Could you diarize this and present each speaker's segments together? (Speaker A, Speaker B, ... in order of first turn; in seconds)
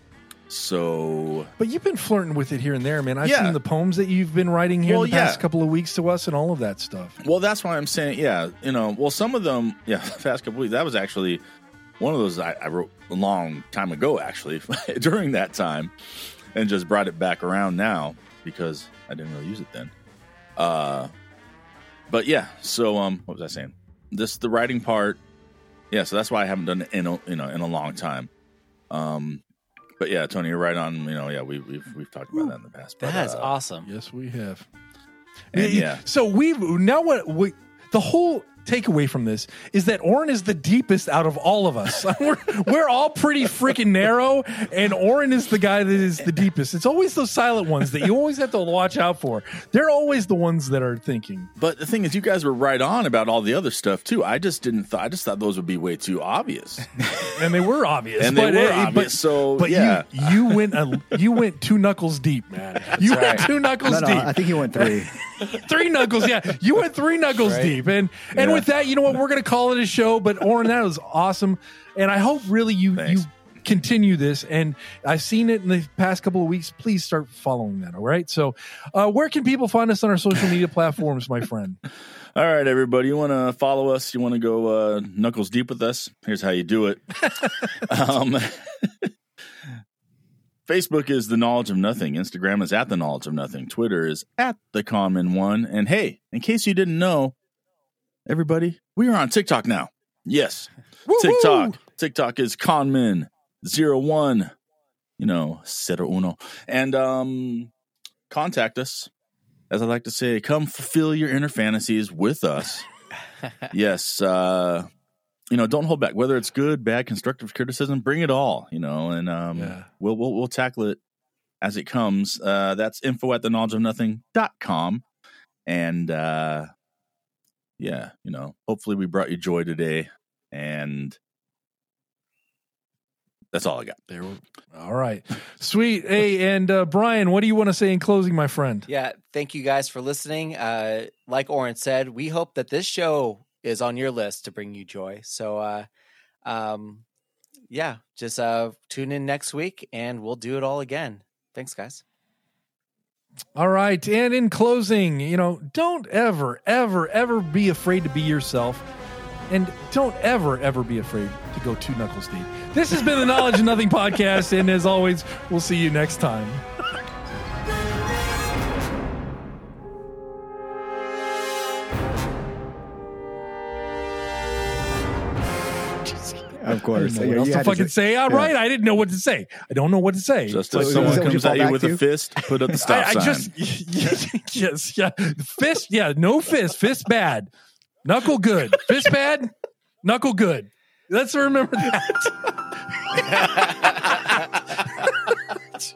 Speaker A: 0.5-1.5, 3.2-3.6, 4.9-5.4, 7.2-11.4, 12.0-15.9, 16.5-19.9, 20.6-21.1, 22.1-25.2, 25.9-28.3, 28.9-29.4, 30.0-33.5, 35.5-36.0, 51.6-56.9, 58.2-60.6, 73.0-73.2, 82.3-89.1, 90.7-97.3, 98.3-104.5, 105.2-107.7, 108.3-109.1, 109.7-112.9, 113.7-114.9, 115.5-121.0, 121.6-125.0, 125.7-126.7, 127.8-131.2, 133.5-134.0, 180.5-183.5
Speaker B: 1.6-7.2, 33.9-34.7, 35.5-51.5, 57.3-81.8, 101.1-101.8, 119.5-119.9, 134.1-138.9, 153.6-158.8, 159.5-166.7, 176.9-181.4, 182.7-187.5, 188.0-189.5, 190.0-192.5
Speaker C: 33.0-33.9, 63.0-63.5, 67.4-67.8, 138.9-145.9, 146.4-147.0, 147.7-152.0, 193.3-194.4
Speaker D: 63.8-65.1, 68.3-68.7, 176.6-178.5, 180.7-182.0